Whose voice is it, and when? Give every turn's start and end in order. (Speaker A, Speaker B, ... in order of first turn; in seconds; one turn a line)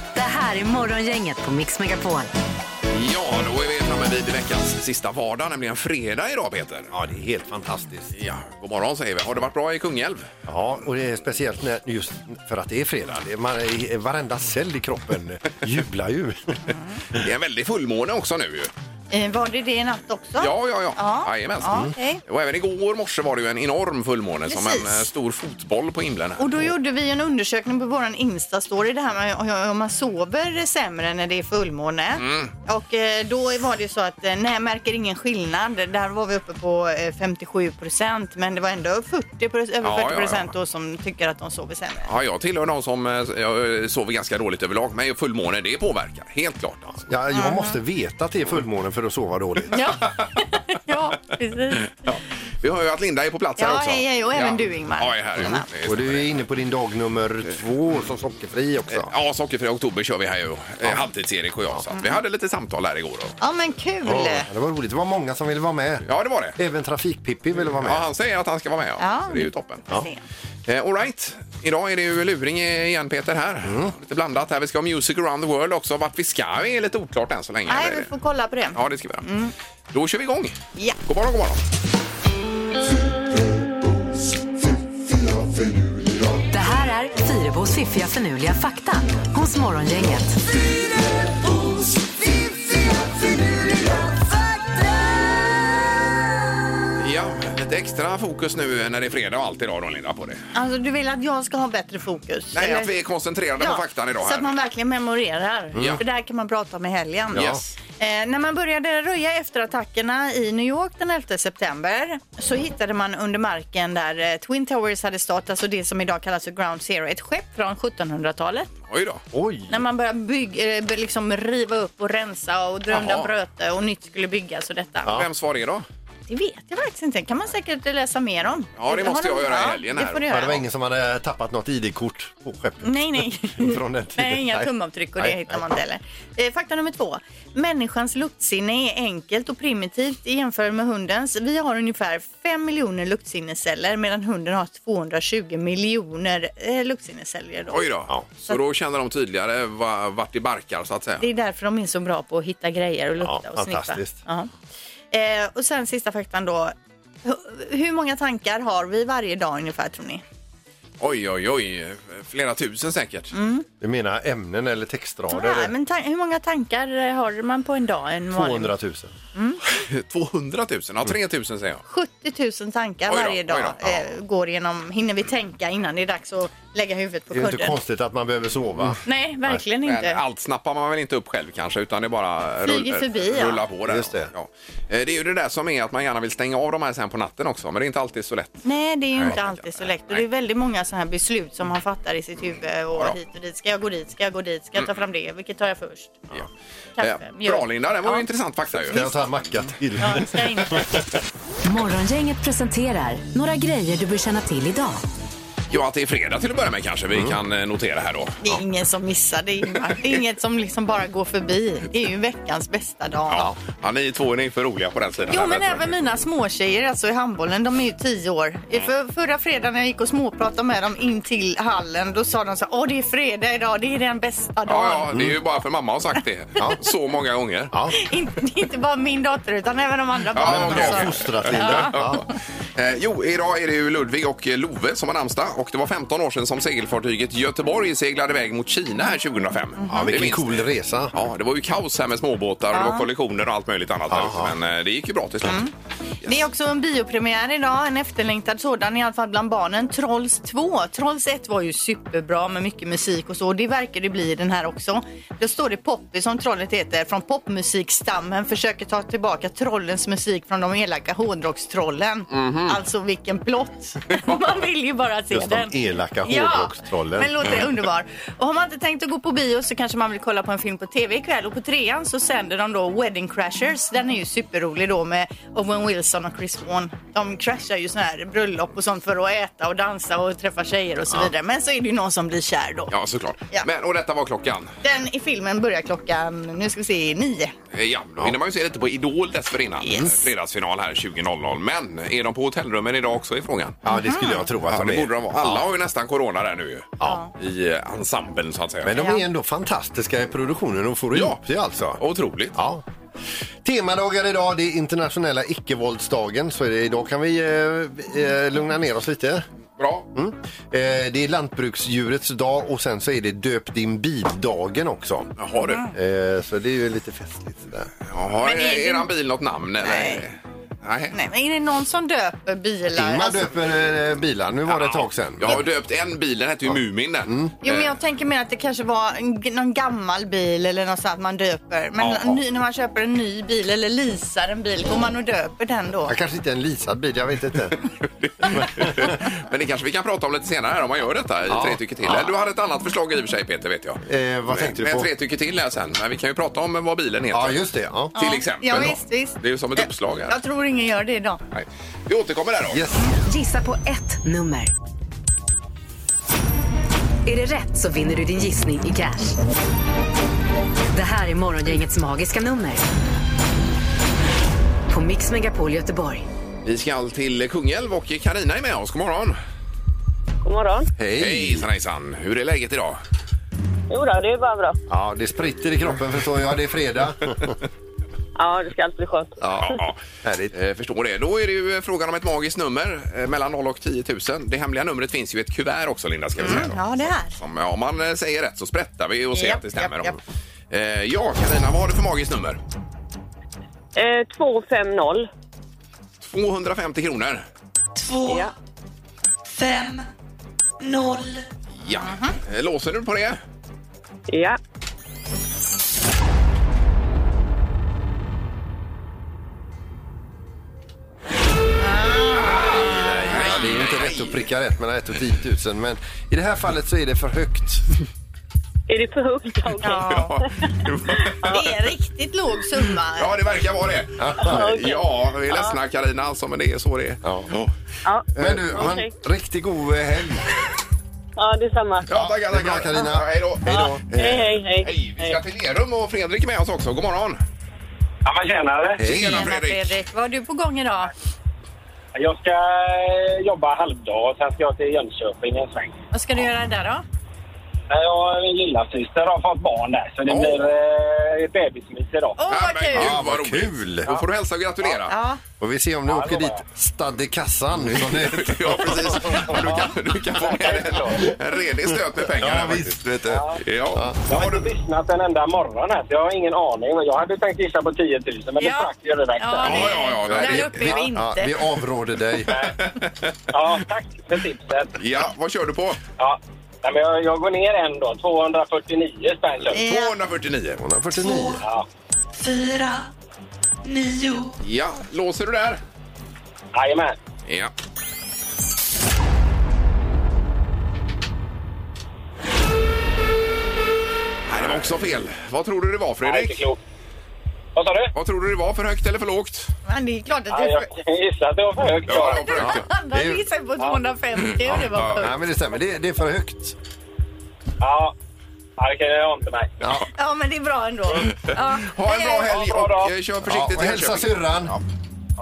Speaker A: 0.1-2.3
Speaker B: 2.9-6.9
Speaker C: 6.9-8.1
Speaker B: 8.1-10.3
Speaker C: 10.4-16.6
Speaker D: 16.7-17.0
Speaker B: 17.1-18.7
Speaker D: 19.1-22.2
Speaker B: 20.4-26.6
Speaker D: 24.5-25.1
Speaker D: 26.4-42.1
Speaker B: 32.2-32.5
Speaker B: 39.8-40.5
Speaker B: 42.1-47.0
Speaker C: 47.0-49.8
Speaker D: 47.3-47.8
Speaker D: 49.7-51.9
Speaker B: 52.0-56.4
Speaker D: 53.6-55.7
Speaker C: 55.8-59.1
Speaker B: 58.9-63.4
Speaker D: 63.4-64.5
Speaker C: 64.0-68.1
Speaker B: 66.0-66.5
Speaker B: 67.8-69.9
Speaker D: 69.0-70.2
Speaker B: 70.7-78.1
Speaker C: 73.6-73.9
Speaker D: 77.7-79.5
Speaker B: 78.7-79.2
Speaker B: 79.9-81.7
Speaker A: 86.5-90.4
Speaker B: 97.0-100.4
Speaker D: 100.5-102.9
Speaker B: 102.5-104.5
Speaker D: 103.6-118.7
Speaker C: 105.7-106.0
Speaker B: 105.8-106.0
Speaker C: 107.3-107.6
Speaker B: 107.3-107.6
Speaker B: 118.9-119.2
Speaker C: 119.3-119.8
Speaker D: 119.7-125.1
Speaker B: 122.9-123.3
Speaker B: 125.1-125.8
Speaker D: 126.3-130.6
Speaker B: 128.8-130.5
Speaker C: 130.3-135.6
Speaker D: 132.8-147.8
Speaker B: 147.7-151.2
Speaker D: 151.2-154.5
Speaker C: 153.2-154.2
Speaker D: 155.1-160.2
Speaker B: 161.0-163.3
Speaker D: 163.3-163.7
Speaker C: 163.8-165.7
Speaker D: 165.3-168.7
Speaker C: 168.3-169.1
Speaker D: 169.3-169.6
Speaker B: 169.7-171.8
Speaker D: 171.9-177.8
Speaker B: 173.1-174.1
Speaker C: 177.3-179.6
Speaker D: 179.0-180.2
Speaker B: 179.8-188.6
Speaker D: 182.6-183.6
Speaker C: 183.9-184.3
Speaker D: 188.6-196.2
Speaker B: 189.2-189.6
Speaker D: 197.0-198.2
Speaker B: 197.0-199.7
Speaker C: 198.9-200.8
Speaker D: 200.0-200.8
Speaker A: 201.6-205.0
Speaker B: 205.7-208.4
Speaker C: 207.1-207.4
Speaker D: 208.4-213.5
Speaker B: 213.3-215.9
Speaker D: 215.3-225.1
Speaker B: 224.7-227.7
Speaker D: 227.9-232.3
Speaker B: 230.3-232.2
Speaker C: 230.4-232.2
Speaker B: 232.7-245.7
Speaker D: 239.8-240.1
Speaker C: 239.9-241.1
Speaker D: 242.7-243.1
Speaker C: 244.1-244.5
Speaker D: 245.4-245.7
Speaker D: 246.2-282.9
Speaker B: 262.3-262.8
Speaker C: 265.3-267.6
Speaker B: 282.9-284.7
Speaker D: 284.8-287.5
Speaker B: 287.7-293.8
Speaker D: 289.8-290.2
Speaker C: 293.8-295.6
Speaker D: 293.9-294.5
Speaker B: 294.7-299.0
Speaker C: 297.0-297.3
Speaker D: 297.0-297.3
Speaker C: 298.8-302.0
Speaker D: 298.9-299.2
Speaker B: 301.1-301.4
Speaker B: 302.0-302.6
Speaker C: 302.5-302.8
Speaker C: 303.6-309.4
Speaker B: 309.8-310.1
Speaker C: 310.1-315.3
Speaker B: 315.4-315.9
Speaker D: 315.6-315.9
Speaker C: 315.9-317.9
Speaker B: 318.1-321.1
Speaker D: 318.4-319.1
Speaker D: 319.8-320.2
Speaker D: 321.1-323.5
Speaker C: 322.9-325.6
Speaker B: 324.7-327.9
Speaker C: 327.2-327.5
Speaker D: 327.6-336.1
Speaker B: 332.0-332.4
Speaker C: 336.1-337.8
Speaker B: 338.2-350.4
Speaker C: 338.5-339.2
Speaker C: 341.5-342.3
Speaker C: 344.1-345.1
Speaker C: 347.3-348.1
Speaker D: 348.1-351.4
Speaker B: 351.5-352.8
Speaker C: 352.7-353.1
Speaker A: 353.2-354.7
Speaker A: 357.2-359.4
Speaker A: 360.9-362.8
Speaker A: 364.9-366.2
Speaker B: 366.6-369.4
Speaker E: 370.4-370.9
Speaker C: 371.0-371.6
Speaker B: 371.2-373.0
Speaker E: 373.9-374.8
Speaker C: 374.9-377.6
Speaker E: 378.4-379.4
Speaker C: 379.4-380.5
Speaker B: 379.6-380.0
Speaker B: 380.5-390.1
Speaker D: 386.4-387.3
Speaker D: 389.3-390.1
Speaker B: 390.7-392.6
Speaker E: 393.9-395.3
Speaker B: 396.2-397.4
Speaker F: 397.9-398.5
Speaker E: 398.3-398.5
Speaker F: 399.4-400.0
Speaker F: 400.8-401.4
Speaker B: 401.7-403.4
Speaker D: 401.9-402.4
Speaker E: 404.3-404.6
Speaker D: 411.8-413.3
Speaker C: 412.8-417.8
Speaker B: 413.2-414.4
Speaker E: 418.9-420.4
Speaker D: 419.8-420.5
Speaker B: 420.1-421.7
Speaker E: 421.2-421.6
Speaker D: 421.4-423.3
Speaker B: 423.1-427.7
Speaker C: 424.2-424.9
Speaker E: 424.4-425.8
Speaker C: 427.2-427.5
Speaker E: 428.0-429.1
Speaker C: 428.4-430.4
Speaker E: 431.4-432.1
Speaker B: 432.1-433.7
Speaker C: 432.1-434.6
Speaker E: 433.6-435.4
Speaker B: 434.8-437.4
Speaker G: 438.2-439.0
Speaker B: 439.0-440.0
Speaker C: 439.0-439.5
Speaker D: 439.1-441.1
Speaker G: 442.1-446.0
Speaker D: 446.1-447.0
Speaker G: 447.9-452.4
Speaker B: 450.3-450.7
Speaker D: 452.4-453.2
Speaker B: 452.5-455.1
Speaker C: 452.9-454.1
Speaker D: 455.1-455.4
Speaker C: 455.6-459.6
Speaker G: 456.1-456.6
Speaker B: 457.9-464.7
Speaker G: 460.3-461.3
Speaker C: 462.4-463.4
Speaker G: 463.3-463.6
Speaker G: 464.3-470.0
Speaker D: 468.6-471.6
Speaker B: 469.6-470.8
Speaker C: 470.3-472.6
Speaker G: 472.5-472.7
Speaker B: 472.8-473.3
Speaker G: 473.5-475.0
Speaker B: 475.0-476.0
Speaker G: 476.2-479.8
Speaker B: 479.7-480.8
Speaker D: 479.7-480.1
Speaker C: 480.8-481.6
Speaker F: 481.2-481.6
Speaker G: 481.6-481.9
Speaker F: 482.4-483.1
Speaker F: 483.8-484.6
Speaker B: 484.6-485.8
Speaker G: 486.7-487.2
Speaker B: 487.4-487.7
Speaker B: 494.5-496.6
Speaker G: 496.2-496.8
Speaker G: 497.7-498.1
Speaker B: 498.1-499.7
Speaker D: 499.9-500.9
Speaker G: 500.5-502.6
Speaker B: 502.1-502.9
Speaker D: 502.2-505.4
Speaker C: 503.1-503.4
Speaker C: 504.7-506.8
Speaker G: 507.8-508.1
Speaker G: 508.8-509.7
Speaker D: 510.1-512.5
Speaker B: 511.5-514.8
Speaker G: 512.1-513.1
Speaker C: 513.4-514.7